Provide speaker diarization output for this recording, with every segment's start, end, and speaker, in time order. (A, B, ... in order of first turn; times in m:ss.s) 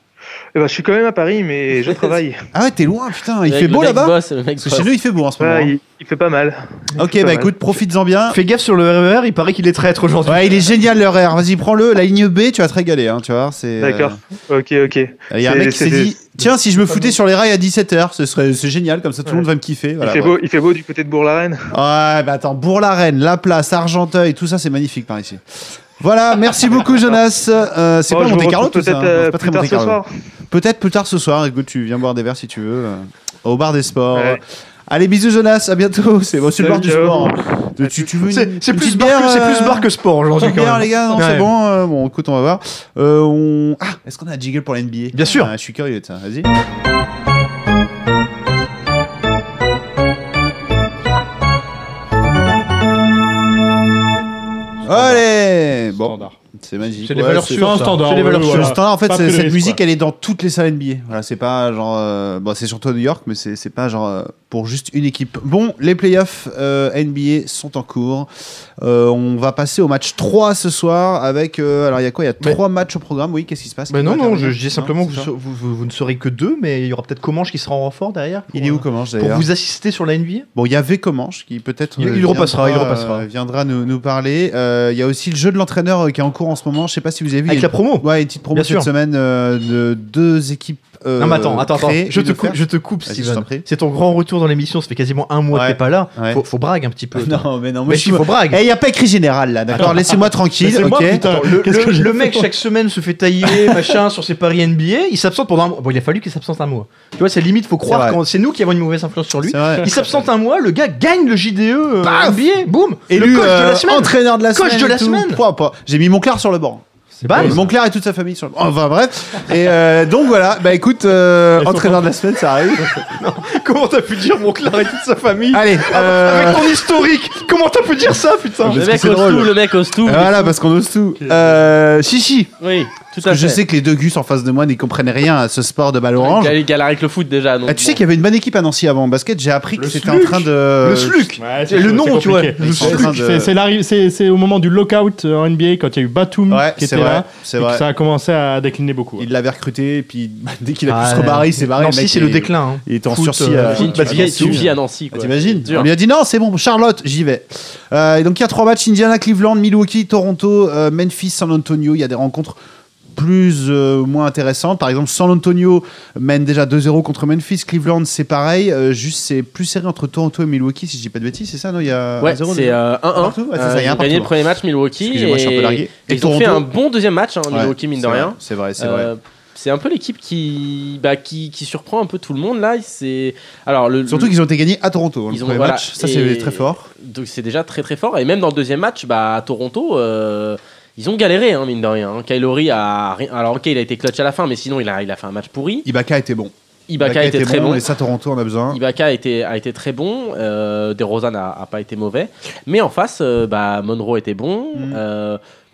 0:00.6-0:02.4 A
0:02.5-0:05.7 B
0:03.5-0:04.9 C
0:05.4-0:07.5 A
0:07.0-0:08.4 B
0:08.3-0:10.7 D
0:10.2-0:14.2 B
0:13.8-0:16.2 A
0:15.3-0:20.4 B
0:20.0-0:21.8 A
0:21.7-0:25.4 B
0:26.0-0:46.5 B
0:28.1-0:30.1 A
0:34.1-0:34.4 A
0:36.6-0:37.4 A
0:38.2-0:41.5 D
0:45.1-0:45.5 D
0:54.8-0:57.9 B
0:54.9-0:55.2 E
0:56.0-0:56.4 E
0:57.0-0:58.7 D
0:57.5-0:59.8 E
0:58.4-1:08.3 B
1:08.8-1:15.3 B
1:13.9-1:20.5 D
1:18.5-1:19.5 B
1:20.6-1:33.7 B
1:22.0-1:23.2 D
1:27.5-1:28.9 D
1:31.2-1:38.6 D
1:35.5-1:36.4 B
1:37.2-1:41.2 B
1:39.8-1:42.5 E
1:41.2-1:55.4 D
1:43.4-1:43.8 E
1:47.9-1:48.2 B
1:49.4-1:50.0 B
1:52.0-1:52.4 B
1:53.1-2:03.1 B
1:57.2-1:57.6 D
1:57.2-1:57.6 E
2:01.6-2:02.0 E
2:03.2-2:08.8 D
2:05.5-2:07.1 B
2:08.6-2:12.5 B
2:08.7-2:10.5 C
2:11.2-2:11.6 E
2:12.6-2:13.6 C
2:13.2-2:16.6 B
2:16.2-2:18.0 C
2:17.7-2:21.4 B
2:19.8-2:23.1 D
2:21.4-2:29.3 E
2:22.6-2:23.5 B
2:26.5-2:27.8 B
2:29.2-2:42.6 B
2:30.9-2:34.6 D
2:33.7-2:35.9 C
2:43.2-2:54.3 B
2:52.2-3:04.3 C
2:55.0-2:56.7 B
2:57.5-2:59.1 B
3:04.1-3:06.9 B
3:05.3-3:15.9 C
3:15.8-3:18.8 B
3:16.9-3:17.8 C
3:18.7-3:25.4 C
3:24.8-3:25.0 B